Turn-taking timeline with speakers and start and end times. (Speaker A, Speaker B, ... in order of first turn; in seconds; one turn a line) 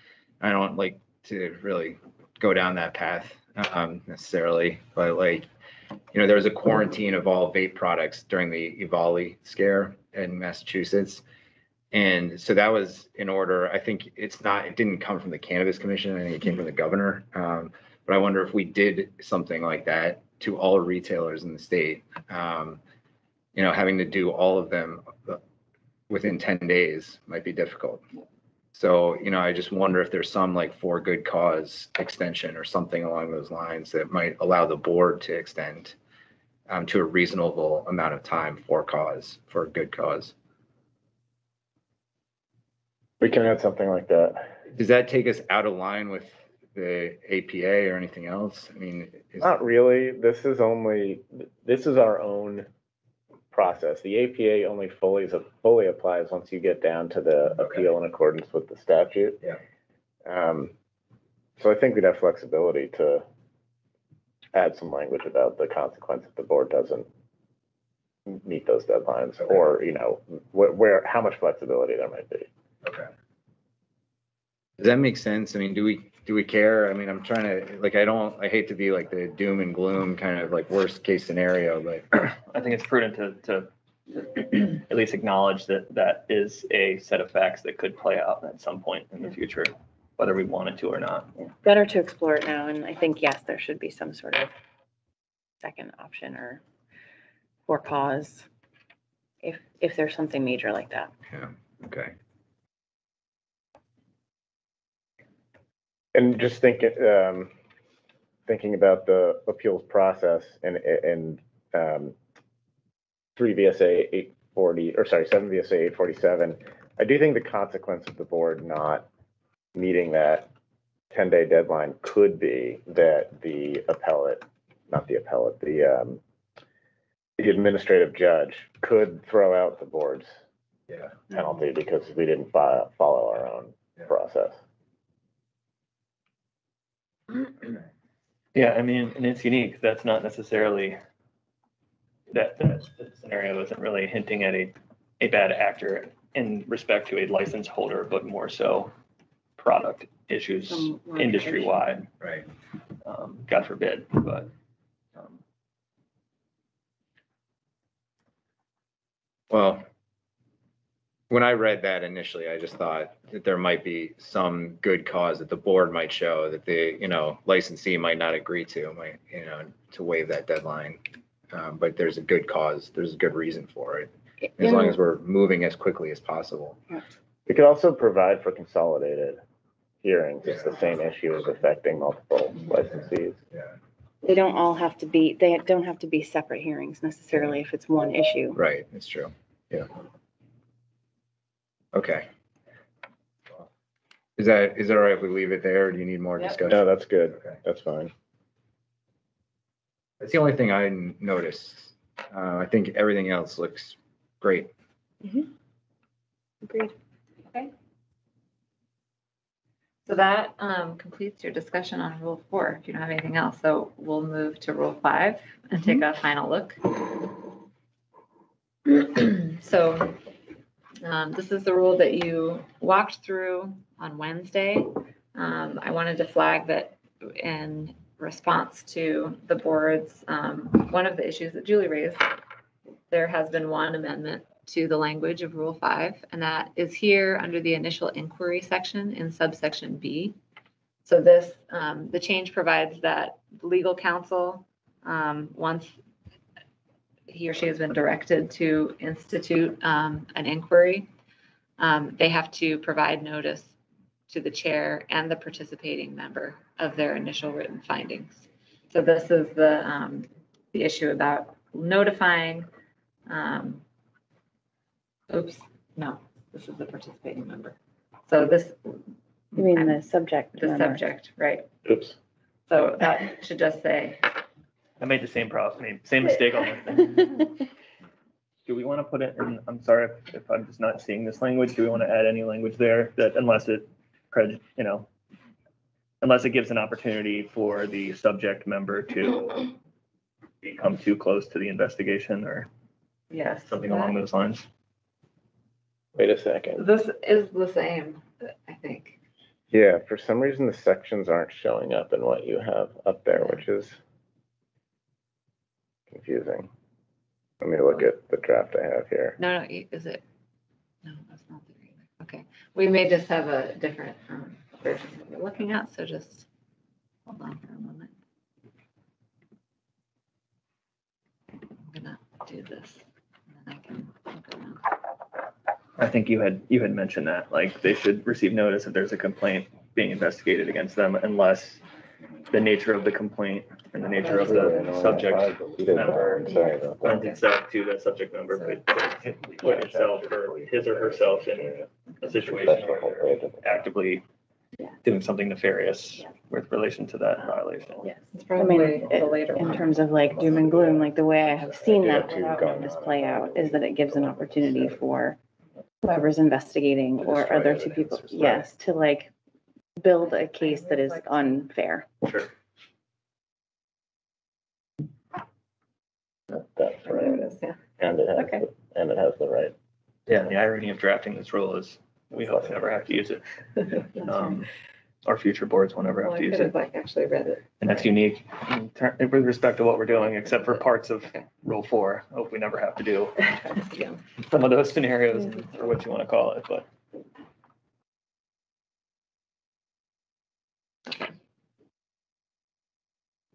Speaker A: 0.4-5.5
Speaker A: 6.1-11.2
Speaker A: 11.9-22.8
Speaker A: 23.5-25.4
Speaker A: 26.1-28.1
Speaker A: 28.7-36.0
Speaker A: 36.7-40.3
Speaker B: 43.2-44.4
Speaker A: 44.7-49.6
Speaker B: 49.4-52.7
Speaker B: 53.5-59.4
Speaker B: 60.2-60.7
Speaker B: 61.6-63.2
Speaker B: 64.5-67.1
Speaker B: 68.3-72.5
Speaker A: 72.8-73.1
Speaker A: 74.8-82.0
Speaker C: 82.1-91.3
Speaker D: 91.4-94.5
Speaker D: 95.6-96.6
Speaker D: 97.7-98.5
Speaker D: 99.4-101.1
Speaker A: 101.3-102.1
Speaker B: 106.1-107.5
Speaker B: 108.5-112.1
Speaker B: 113.3-119.1
Speaker B: 119.7-120.5
Speaker B: 121.1-126.2
Speaker B: 127.4-130.3
Speaker A: 130.9-131.2
Speaker B: 131.3-134.6
Speaker C: 138.5-141.0
Speaker C: 142.3-148.9
Speaker C: 149.6-152.1
Speaker D: 150.7-152.0
Speaker C: 153.0-154.5
Speaker C: 155.2-155.4
Speaker A: 159.5-159.8
Speaker A: 161.3-176.8
Speaker D: 174.5-174.9
Speaker B: 177.4-179.4
Speaker B: 180.0-183.4
Speaker D: 184.2-188.6
Speaker A: 188.5-189.9
Speaker A: 191.9-192.3
Speaker A: 194.4-197.6
Speaker B: 196.6-198.1
Speaker A: 200.2-204.7
Speaker D: 205.2-205.5
Speaker D: 206.6-206.9
Speaker E: 210.1-217.4
Speaker E: 218.8-220.2
Speaker E: 221.0-232.3
Speaker E: 233.1-240.3
Speaker E: 241.0-246.0
Speaker E: 247.3-251.1
Speaker E: 251.8-253.7
Speaker E: 254.3-262.7
Speaker E: 263.3-263.8
Speaker E: 265.3-267.7
Speaker E: 268.3-270.0
Speaker D: 269.5-271.0
Speaker E: 270.5-271.7
Speaker B: 271.8-272.1
Speaker E: 272.7-274.2
Speaker C: 275.0-277.5
Speaker C: 278.7-285.1
Speaker C: 286.2-289.7
Speaker C: 290.6-292.7
Speaker E: 293.3-294.2
Speaker C: 293.7-294.7
Speaker B: 296.1-296.8
Speaker E: 296.8-299.2
Speaker B: 299.7-304.0
Speaker E: 303.3-303.6
Speaker B: 306.1-306.7
Speaker B: 307.6-309.4
Speaker E: 309.4-310.2
Speaker E: 311.0-316.4
Speaker E: 317.3-318.1
Speaker E: 321.8-323.0
Speaker E: 323.6-324.9
Speaker C: 326.0-331.8
Speaker C: 332.5-344.2
Speaker B: 334.3-337.3
Speaker B: 339.6-343.6
Speaker C: 345.0-348.1
Speaker E: 348.2-349.9
Speaker D: 348.6-355.4
Speaker B: 350.3-355.0
Speaker D: 356.0-359.3
Speaker B: 357.2-358.7
Speaker D: 360.0-362.1
Speaker C: 362.2-362.5
Speaker B: 366.6-367.4
Speaker E: 367.0-367.8
Speaker B: 368.0-369.7
Speaker C: 370.3-374.7
Speaker C: 375.2-376.7
Speaker E: 376.2-377.6
Speaker C: 377.8-383.5
Speaker E: 383.9-384.2
Speaker C: 384.4-386.9